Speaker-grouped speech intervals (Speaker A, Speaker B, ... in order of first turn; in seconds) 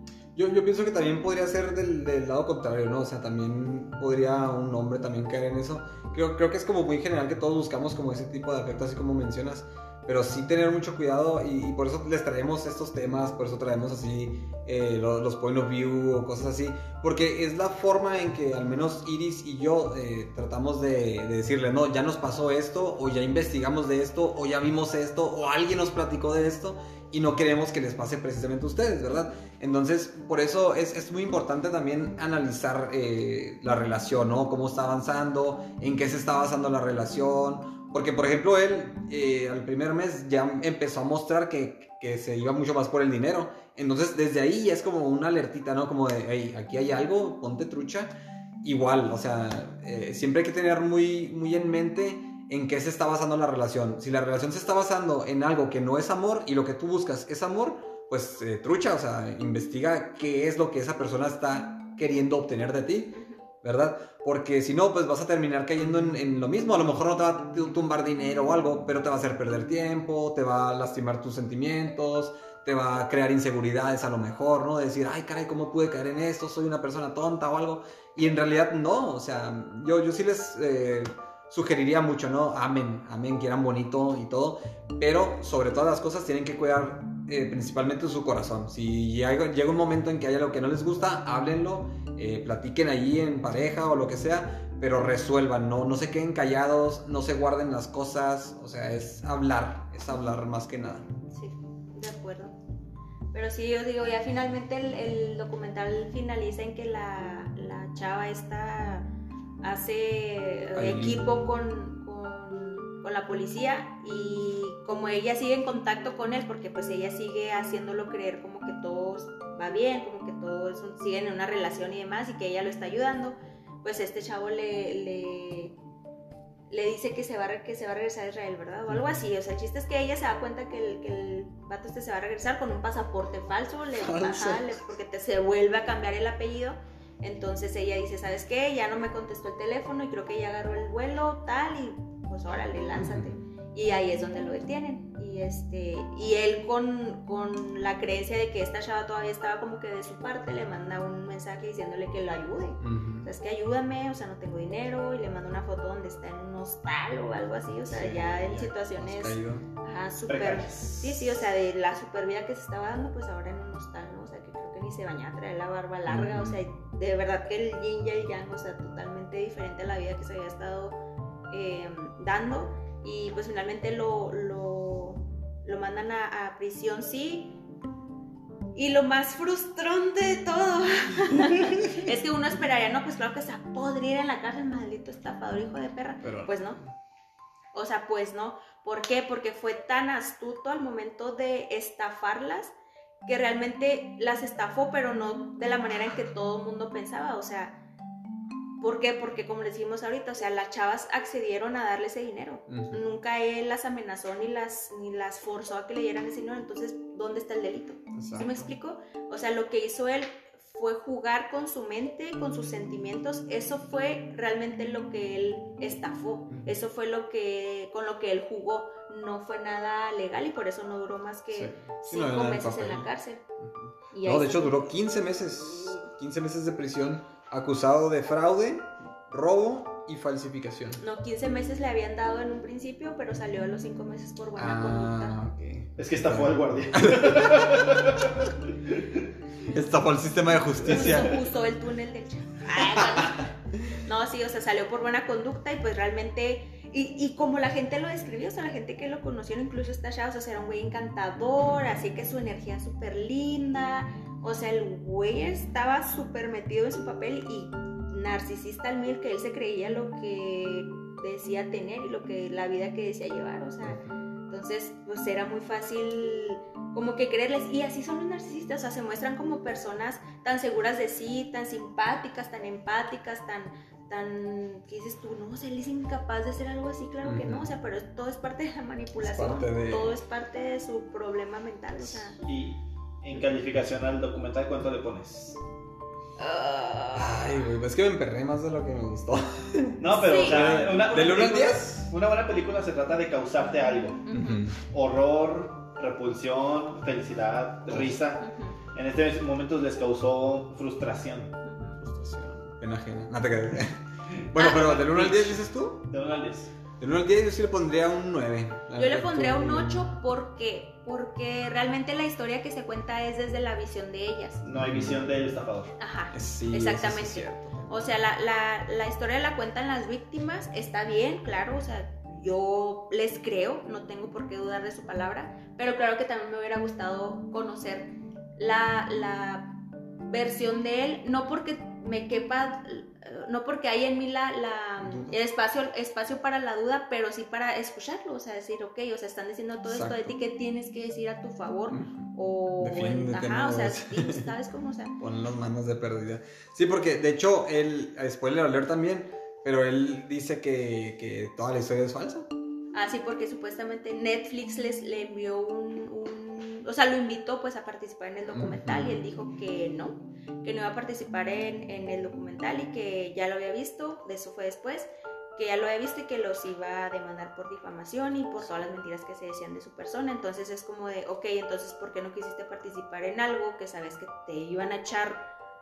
Speaker A: 0.3-101.0, 110.7-111.3, 134.0-134.9, 142.9-143.3, 152.8-153.3, 157.9-159.7, 166.1-166.6, 181.5-181.8, 186.2-186.9, 202.7-203.0, 208.1-208.7, 221.5-231.0, 234.6-237.9, 239.7-241.4, 242.7-243.5, 263.8-264.1, 277.2-277.7, 279.2-280.1, 287.1-292.1, 294.3-294.8, 297.9-298.2, 302.0-306.1, 307.0-310.2, 314.8-315.2, 316.3-317.9, 335.0-335.3, 339.9-340.4, 341.9-342.3, 342.8-344.5, 345.2-352.5, 358.5-359.2
Speaker B: 63.1-63.4, 101.3-102.5, 103.3-109.1, 109.6-125.7, 126.7-171.0, 171.5-177.6, 178.7-186.8, 187.7-192.7, 193.2-197.8, 198.8-223.4, 224.1-224.9, 231.0-235.4, 240.8-243.5, 244.0-282.4, 286.4-287.6, 290.1-290.8, 294.2-294.7, 298.4-298.8, 301.6-302.0, 308.9-314.6, 316.0-329.7, 330.3-345.1, 352.9-375.4
Speaker C: 160.3-160.8, 236.0-238.4, 240.9-241.2, 282.4-285.6, 290.0-294.2, 294.8-301.5, 304.4-306.7, 314.6-315.9